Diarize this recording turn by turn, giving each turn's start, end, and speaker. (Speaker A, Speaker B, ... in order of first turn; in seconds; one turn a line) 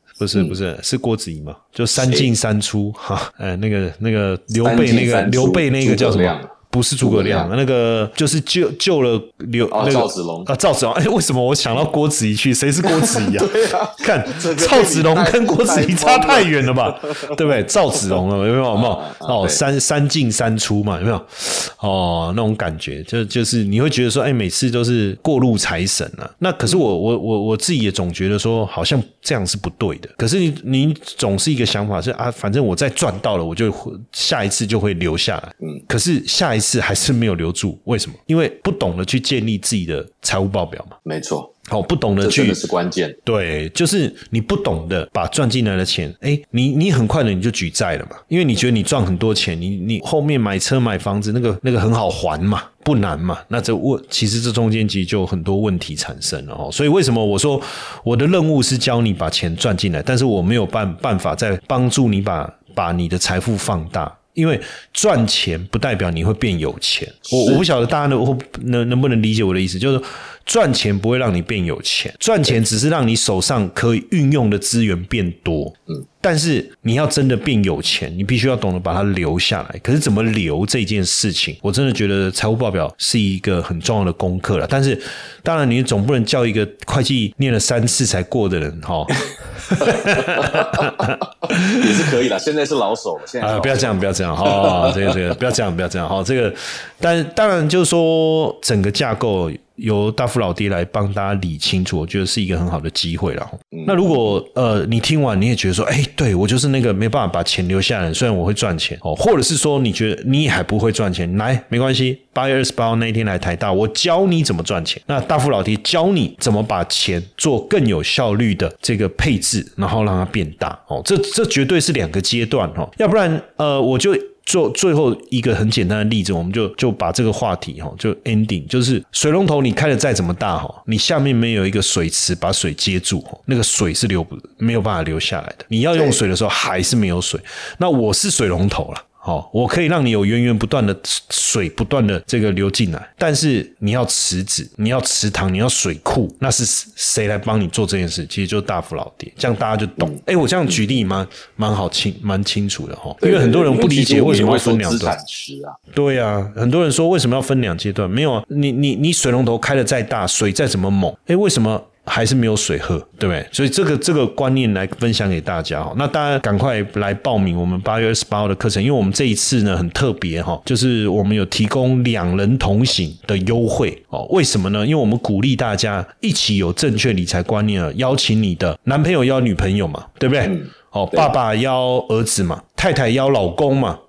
Speaker A: 0.2-41.0
Speaker B: 1.9-2.3
Speaker B: 4.5-7.5
Speaker B: 9.7-10.5
Speaker B: 12.9-17.4
Speaker B: 18.7-19.6
Speaker B: 41.0-41.5
Speaker A: 41.7-42.6
Speaker B: 42.2-43.2
Speaker A: 43.2-92.1
Speaker B: 67.3-67.6
Speaker B: 89.8-95.2
Speaker A: 93.4-155.2
Speaker B: 103.7-104.4
Speaker B: 153.2-155.8
Speaker A: 155.9-184.0
Speaker B: 180.4-181.3